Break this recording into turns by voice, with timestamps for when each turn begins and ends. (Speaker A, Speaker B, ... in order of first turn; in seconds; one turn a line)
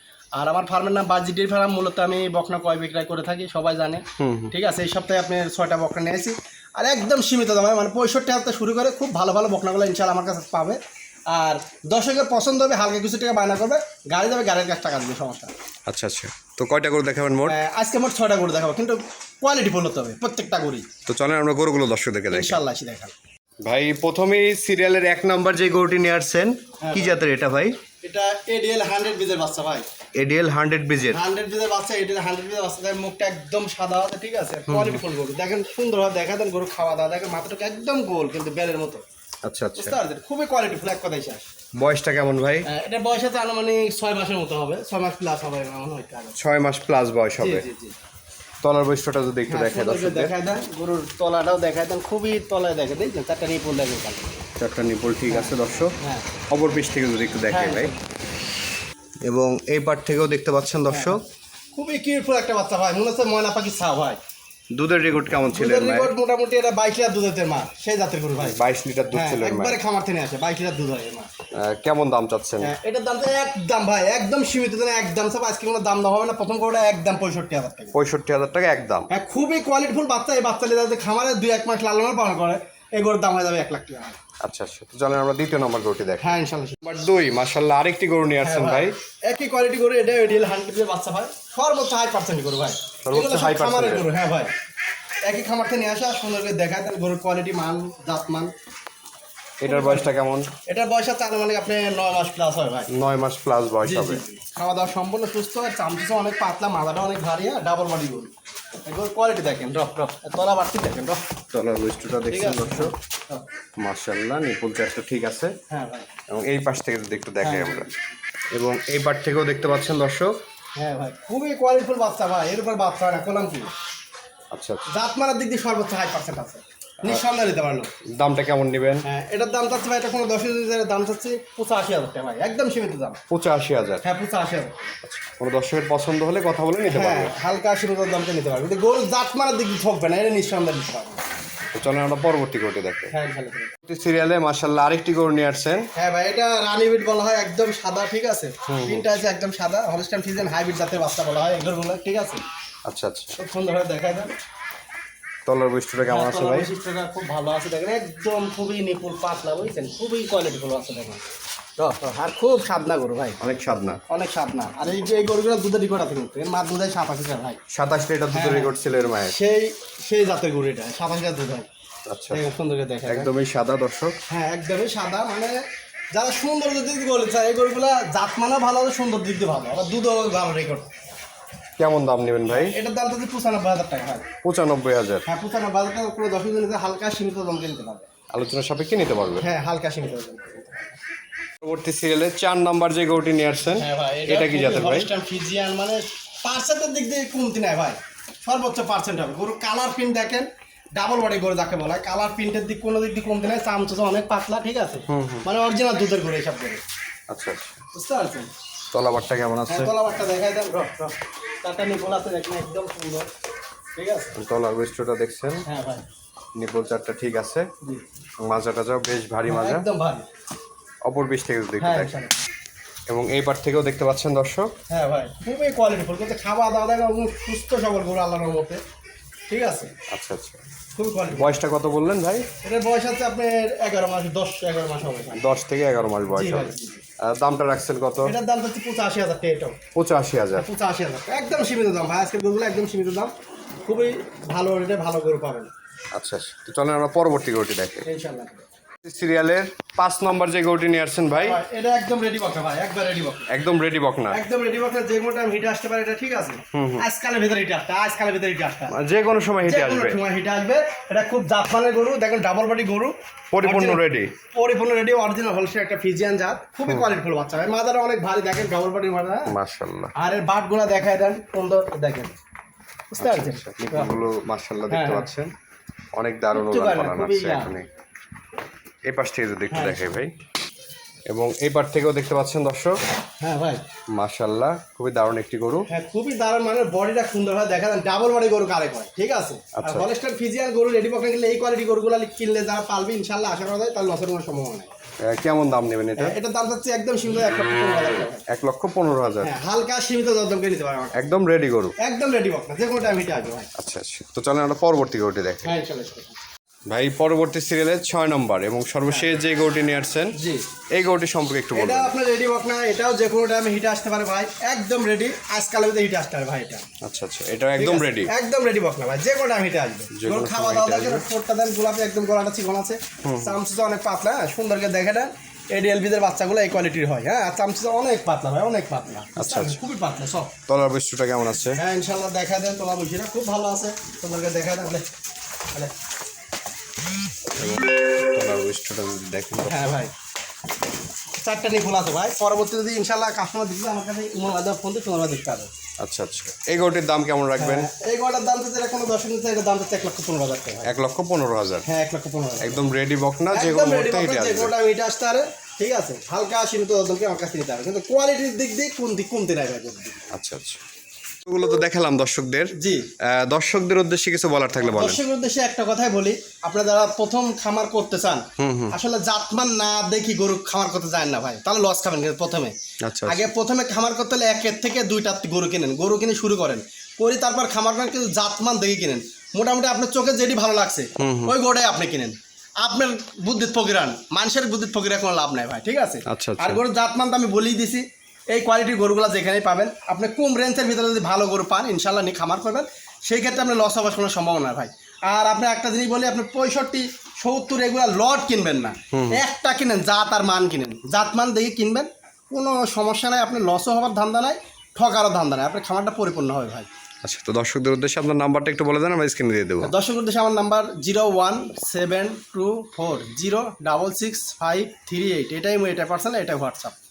Speaker A: 0.4-10.8
Speaker B: 4.2-4.5
Speaker A: 11.3-15.5
Speaker B: 15.9-17.6
Speaker A: 17.5-20.9
Speaker B: 21.1-22.6
Speaker A: 22.3-23.1
Speaker B: 23.6-27.8
Speaker A: 26.8-27.2
Speaker A: 28.0-29.9
Speaker B: 30.1-31.2
Speaker A: 31.1-39.0
Speaker B: 34.7-35.0
Speaker B: 39.4-40.0
Speaker A: 39.8-41.5
Speaker B: 41.8-42.7
Speaker A: 42.6-46.4
Speaker B: 46.4-47.7
Speaker A: 47.4-48.0
Speaker B: 48.6-50.3
Speaker A: 49.5-54.3
Speaker B: 54.6-55.9
Speaker A: 55.3-56.3
Speaker B: 56.5-57.9
Speaker A: 57.5-58.0
Speaker B: 59.2-61.2
Speaker A: 60.9-61.2
Speaker A: 61.8-64.2
Speaker B: 64.7-66.1
Speaker A: 65.5-68.6
Speaker B: 68.4-69.8
Speaker A: 69.1-71.3
Speaker B: 71.6-72.7
Speaker A: 72.6-78.0
Speaker B: 77.9-79.1
Speaker A: 79.1-84.2
Speaker B: 84.4-89.0
Speaker A: 86.2-86.8
Speaker A: 88.4-94.5
Speaker B: 93.0-94.1
Speaker A: 95.2-98.5
Speaker B: 99.6-100.5
Speaker A: 99.6-100.1
Speaker A: 100.7-102.9
Speaker B: 102.9-104.2
Speaker A: 103.8-108.3
Speaker A: 108.9-111.2
Speaker B: 111.5-112.9
Speaker A: 112.3-113.5
Speaker B: 113.8-115.5
Speaker A: 115.7-116.1
Speaker B: 116.3-117.9
Speaker A: 117.4-117.9
Speaker B: 118.5-120.4
Speaker A: 120.8-123.7
Speaker B: 124.5-124.8
Speaker A: 124.9-127.9
Speaker B: 128.1-129.1
Speaker A: 129.0-133.2
Speaker B: 133.3-134.1
Speaker A: 134.0-134.8
Speaker B: 135.0-137.3
Speaker A: 136.9-141.2
Speaker B: 141.7-143.1
Speaker A: 143.1-143.7
Speaker B: 143.8-145.9
Speaker A: 146.0-152.4
Speaker B: 148.7-149.1
Speaker B: 152.9-153.4
Speaker A: 153.4-154.3
Speaker B: 155.5-156.7
Speaker A: 156.1-161.2
Speaker A: 161.8-163.4
Speaker B: 163.4-164.0
Speaker A: 164.1-167.6
Speaker B: 167.7-169.3
Speaker A: 168.3-168.7
Speaker A: 169.2-171.7
Speaker B: 172.1-172.4
Speaker A: 172.3-173.3
Speaker B: 173.1-174.2
Speaker A: 174.3-180.9
Speaker B: 181.8-182.8
Speaker A: 182.5-184.3
Speaker B: 184.4-185.3
Speaker A: 185.3-188.1
Speaker B: 188.3-189.5
Speaker A: 189.4-191.0
Speaker B: 191.6-195.1
Speaker A: 193.8-206.8
Speaker B: 205.1-205.5
Speaker B: 207.3-207.8
Speaker A: 207.9-208.5
Speaker B: 208.9-209.9
Speaker A: 209.7-213.3
Speaker A: 214.0-214.3
Speaker B: 214.4-215.7
Speaker A: 215.7-216.1
Speaker B: 216.6-217.7
Speaker B: 218.4-219.9
Speaker A: 219.5-220.3
Speaker B: 221.1-222.1
Speaker A: 221.8-222.3
Speaker B: 223.1-224.7
Speaker A: 224.9-228.8
Speaker A: 229.5-229.9
Speaker B: 230.1-230.6
Speaker A: 230.9-231.6
Speaker B: 231.3-232.5
Speaker A: 232.6-235.4
Speaker B: 235.4-238.3
Speaker A: 236.3-237.0
Speaker A: 238.2-239.8
Speaker B: 239.9-240.7
Speaker A: 240.6-243.3
Speaker A: 243.9-245.7
Speaker B: 246.1-248.1
Speaker A: 248.1-248.7
Speaker B: 249.0-251.6
Speaker A: 251.3-253.5
Speaker B: 253.5-254.4
Speaker A: 254.3-258.9
Speaker B: 256.7-257.1
Speaker B: 258.9-260.2
Speaker A: 259.6-264.0
Speaker B: 263.5-264.3
Speaker A: 264.5-269.5
Speaker B: 269.5-270.1
Speaker A: 270.2-272.4
Speaker A: 273.1-274.1
Speaker B: 273.2-275.5
Speaker A: 274.9-275.3
Speaker B: 276.1-277.9
Speaker A: 276.5-277.7
Speaker B: 279.1-280.3
Speaker A: 279.7-280.1
Speaker B: 281.3-283.0
Speaker A: 283.4-283.8
Speaker B: 284.2-285.9
Speaker A: 285.9-294.9
Speaker B: 289.8-290.1
Speaker B: 295.2-296.4
Speaker A: 296.2-298.4
Speaker B: 298.5-299.5
Speaker A: 299.4-301.3
Speaker B: 301.1-301.9
Speaker A: 302.0-303.7
Speaker B: 303.8-305.8
Speaker A: 305.6-306.4
Speaker B: 306.9-310.4
Speaker A: 310.3-310.6
Speaker B: 310.9-312.1
Speaker A: 311.8-316.9
Speaker B: 317.0-318.3
Speaker A: 317.8-330.5
Speaker B: 320.1-321.2
Speaker B: 323.2-323.6
Speaker B: 329.4-329.8
Speaker B: 330.7-331.8
Speaker A: 331.8-335.1
Speaker B: 337.5-339.9
Speaker A: 339.6-340.1
Speaker A: 341.4-345.7
Speaker B: 346.0-347.9
Speaker A: 347.6-350.9
Speaker B: 350.9-351.9
Speaker A: 351.9-352.8
Speaker B: 352.6-354.7
Speaker A: 353.5-360.2
Speaker B: 360.3-360.8
Speaker B: 361.5-362.7
Speaker A: 362.7-363.1
Speaker B: 363.2-365.2
Speaker A: 364.8-372.7
Speaker B: 368.6-368.9
Speaker B: 373.0-373.5
Speaker A: 373.3-406.9
Speaker B: 381.2-381.5
Speaker B: 386.3-386.8
Speaker B: 399.1-399.4
Speaker B: 407.2-409.9
Speaker A: 409.8-417.0